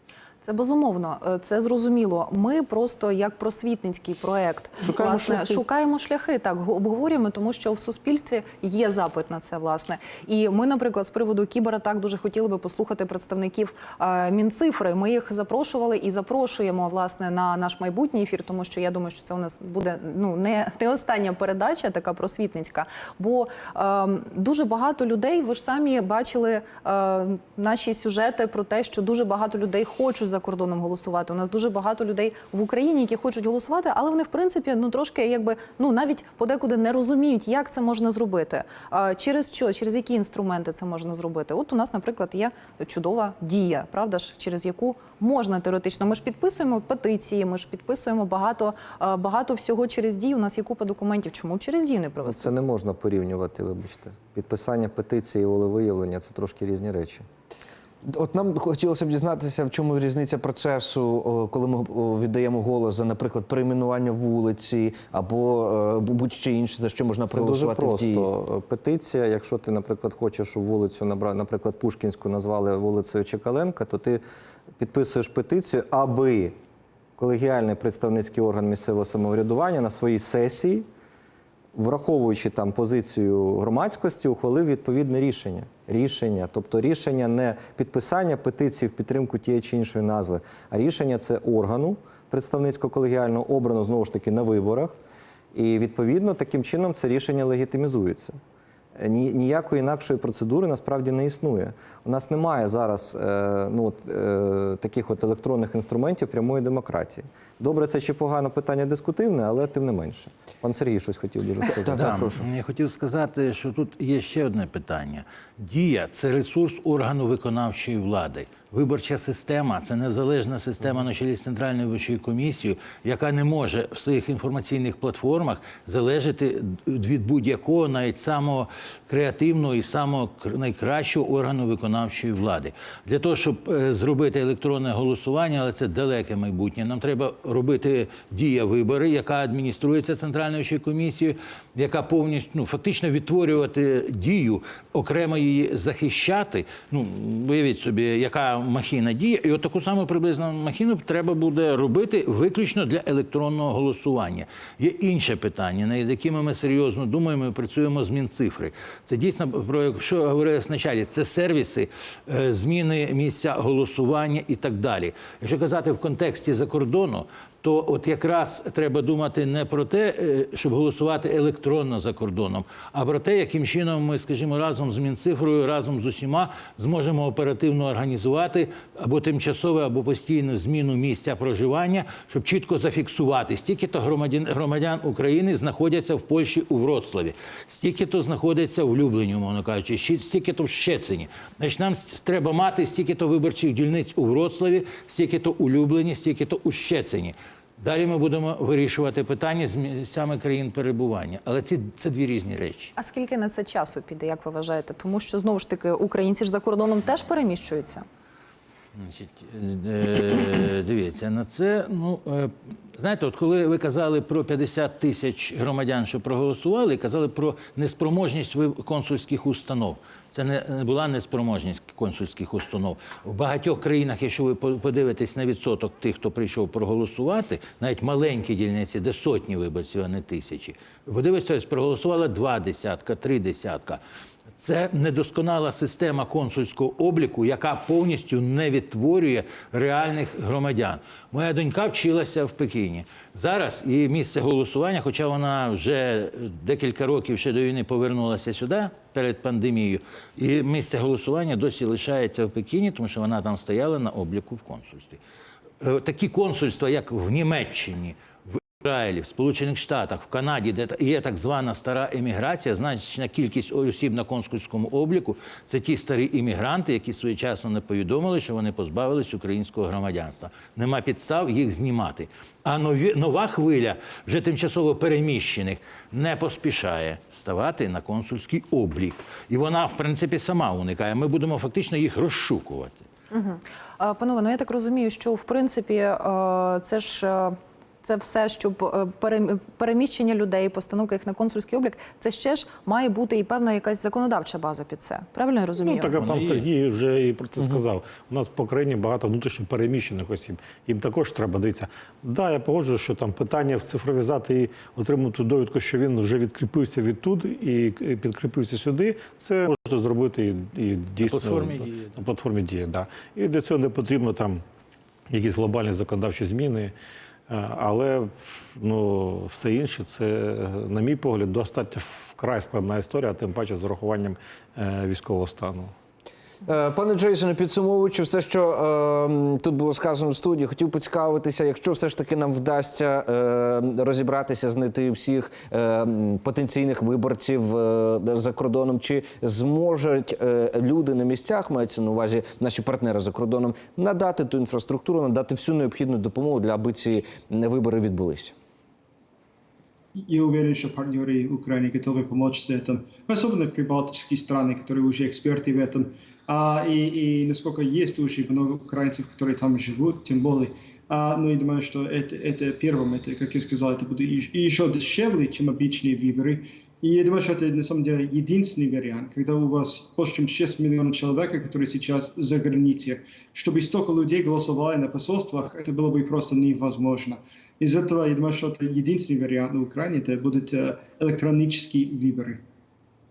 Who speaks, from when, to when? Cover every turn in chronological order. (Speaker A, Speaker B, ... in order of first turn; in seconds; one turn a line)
Speaker A: 0.4-52.5
Speaker B: 4.8-5.6
Speaker C: 52.2-57.2
Speaker B: 58.1-68.3
Speaker C: 67.3-74.2
Speaker C: 74.8-76.6
Speaker C: 77.2-80.8
Speaker C: 81.7-95.0
Speaker C: 95.5-98.4
Speaker C: 99.0-112.3
Speaker B: 111.7-112.5
Speaker D: 111.9-202.9
Speaker A: 202.9-208.1
Speaker D: 208.9-234.0
Speaker D: 234.6-255.2
Speaker D: 255.8-258.2
Speaker D: 258.8-283.0
Speaker A: 283.3-296.4
Speaker E: 295.8-314.6
Speaker D: 296.2-296.6
Speaker D: 311.2-312.2
Speaker E: 315.3-316.9
Speaker E: 317.5-325.9
Speaker B: 326.6-348.6
Speaker F: 350.1-382.6